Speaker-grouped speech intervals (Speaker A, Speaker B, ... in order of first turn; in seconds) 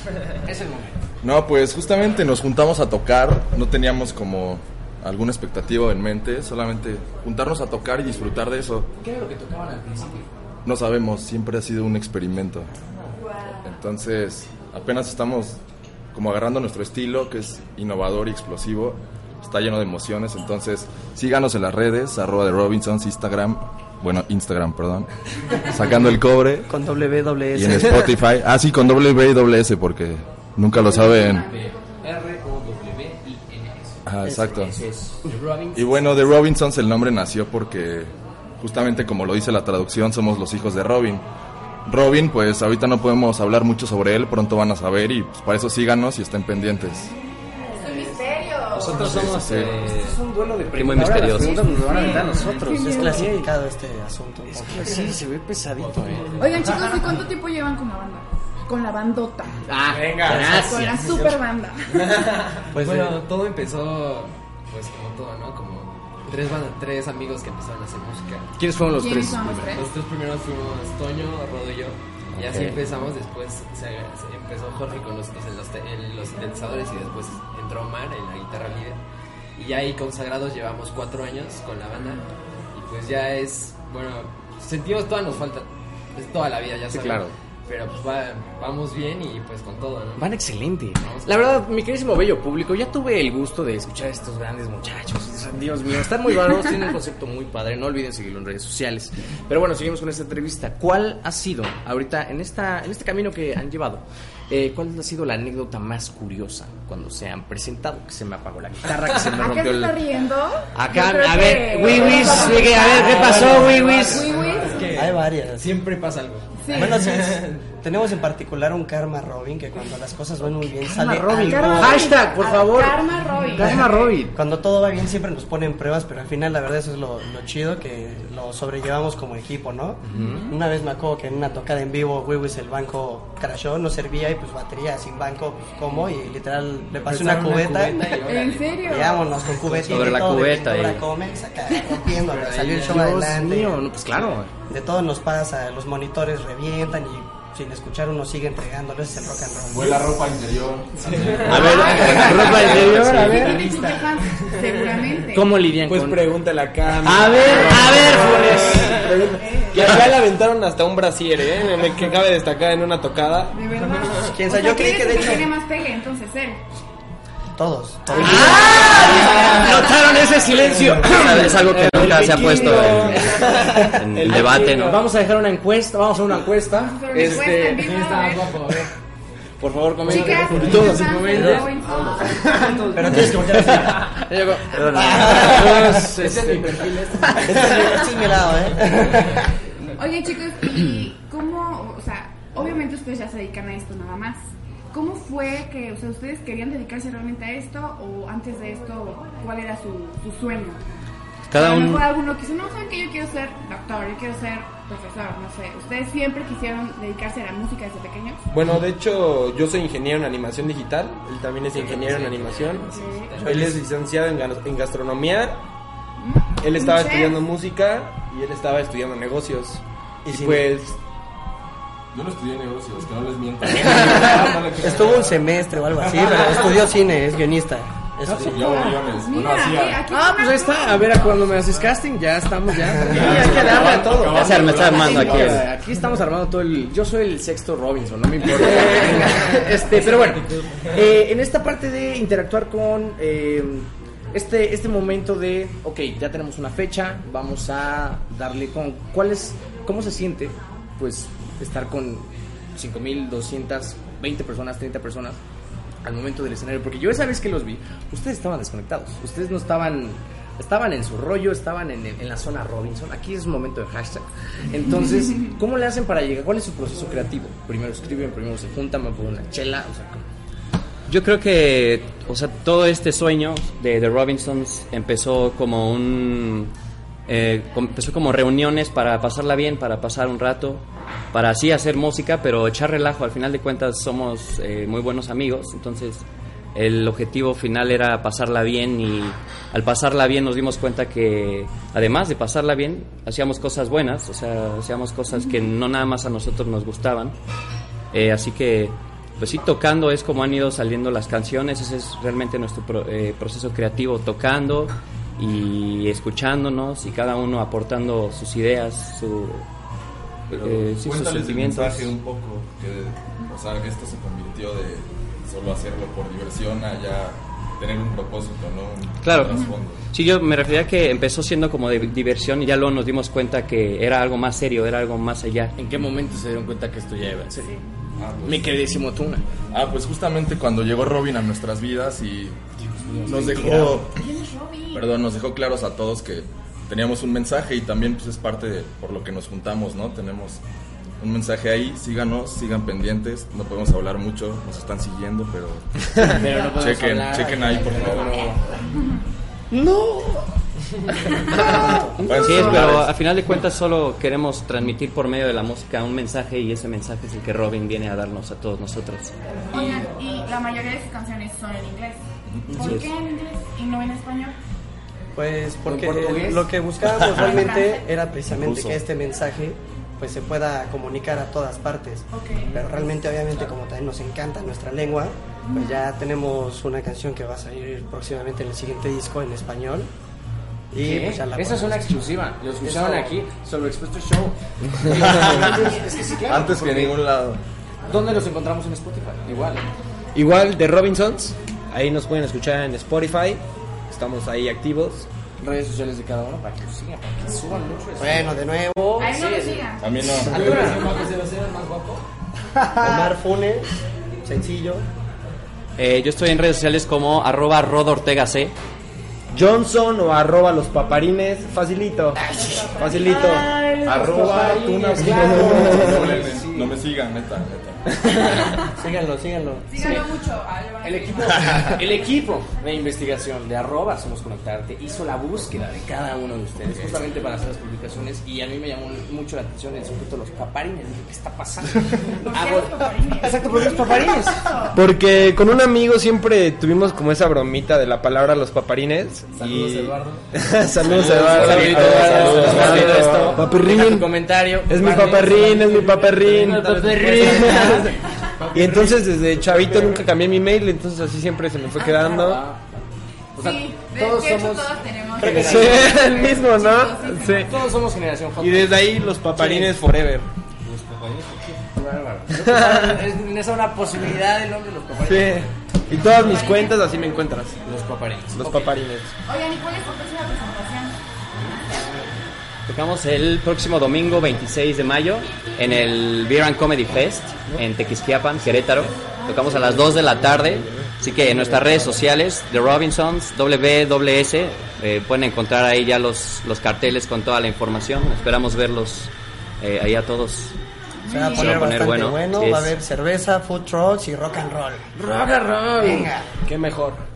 Speaker A: 0.4-1.0, 9.0-10.3, 30.9-36.3, 47.8-48.2, 48.8-53.5, 54.5-56.5, 59.7-61.4, 68.6-69.8, 86.9-87.3, 90.2-110.0, 110.8-114.3, 120.8-124.3, 130.1-130.4, 139.6-140.3, 142.7-144.5, 151.4-153.8, 155.3-156.4, 156.9-160.0, 168.2-178.0, 179.6-188.2, 228.3-229.0, 230.1-255.4, 256.0-270.2, 325.8-327.8, 328.4-329.4, 332.8-334.1, 346.2-348.6, 365.9-366.7, 381.0-387.1, 388.1-389.9, 395.6-401.2, 413.3-416.9, 420.0-420.3, 421.0-434.7, 441.0-448.2, 448.8-449.1, 452.0-452.8, 453.6-456.2, 457.6-460.0, 461.8-465.7, 467.8-468.9, 495.1-496.3
Speaker B: 1.2-8.9, 10.7-12.7, 13.6-15.6, 16.1-26.7, 27.5-31.5, 34.1-34.8, 35.8-41.2, 41.9-47.1, 49.0-49.8, 149.7-152.4, 152.9-153.2, 222.1-225.4, 226.0-226.7, 228.3-230.0, 232.9-235.7, 310.5-320.0, 328.2-328.8, 329.7-332.6, 333.2-334.2, 334.9-340.6, 341.2-348.4, 351.5-353.1, 362.5-362.9, 385.1-385.9, 386.5-387.6, 400.0-401.0, 414.0-418.0, 441.5-442.7
Speaker C: 26.7-28.1, 52.7-55.1, 60.2-60.6, 62.7-63.2, 114.9-115.7, 116.7-122.2, 124.3-138.2, 138.8-143.8, 144.7-150.1, 164.2-165.5, 167.6-169.2, 181.3-181.6, 182.9-184.2, 184.9-186.1, 187.3-189.5, 213.4-213.8, 220.2-220.7, 223.8-228.8, 349.7-350.3, 351.6-352.3, 365.4-380.1, 380.9-382.2, 382.8-383.4, 398.2-399.3, 402.9-403.9, 404.4-405.1, 419.0-419.9, 491.3-495.1, 496.0-496.5
Speaker D: 30.9-31.6, 47.8-49.0, 51.4-53.3, 56.4-59.7, 60.3-62.0, 68.9-69.9, 109.3-114.9, 116.6-117.0, 121.5-124.2, 130.1-130.5, 138.2-139.3, 151.5-155.5, 163.5-166.6, 168.2-169.9, 176.8-178.7, 180.1-183.3, 184.7-185.4, 190.0-194.4, 194.9-200.8, 201.5-208.4, 212.9-213.4, 216.2-217.4, 228.8-231.3, 295.3-295.6, 319.5-319.8, 334.1-335.2, 347.7-348.5, 351.4-352.9, 359.7-364.6, 367.3-368.1, 372.3-372.8, 375.6-376.0, 399.2-400.6, 412.5-413.7, 419.9-422.0, 432.4-435.0, 453.6-457.8, 466.3-467.3, 469.4-471.2, 471.7-472.1, 479.4-479.8, 491.2-491.9
Speaker E: 48.7-50.2, 50.7-52.5, 72.3-72.8, 139.9-141.0, 171.0-175.0, 184.8-185.5, 201.5-202.1, 234.3-235.7, 271.1-276.7, 277.3-297.4, 298.1-309.6, 310.5-312.1, 319.2-325.8, 352.3-359.4, 362.8-363.1, 368.6-369.0, 406.0-408.7, 472.9-490.8, 491.5-492.9
Speaker F: 55.8-56.6, 61.9-68.5, 69.8-79.0, 79.6-90.3, 91.0-91.5, 112.2-116.5, 117.2-117.5, 137.1-139.1, 142.3-143.0, 151.1-153.8, 173.1-173.9, 177.2-178.9, 180.1-181.0, 181.8-183.3, 186.2-187.0, 211.7-213.7, 400.5-402.2, 439.6-440.4, 441.3-443.6, 446.8-448.0, 448.6-449.1
Speaker G: 60.0-60.5, 152.2-153.5, 155.8-163.6, 208.5-215.6, 216.6-221.0, 390.3-395.3, 409.5-416.4, 434.9-448.1, 448.7-452.6, 455.4-457.7, 458.6-460.5, 462.6-463.2, 465.2-467.8, 468.5-469.3, 496.6-497.2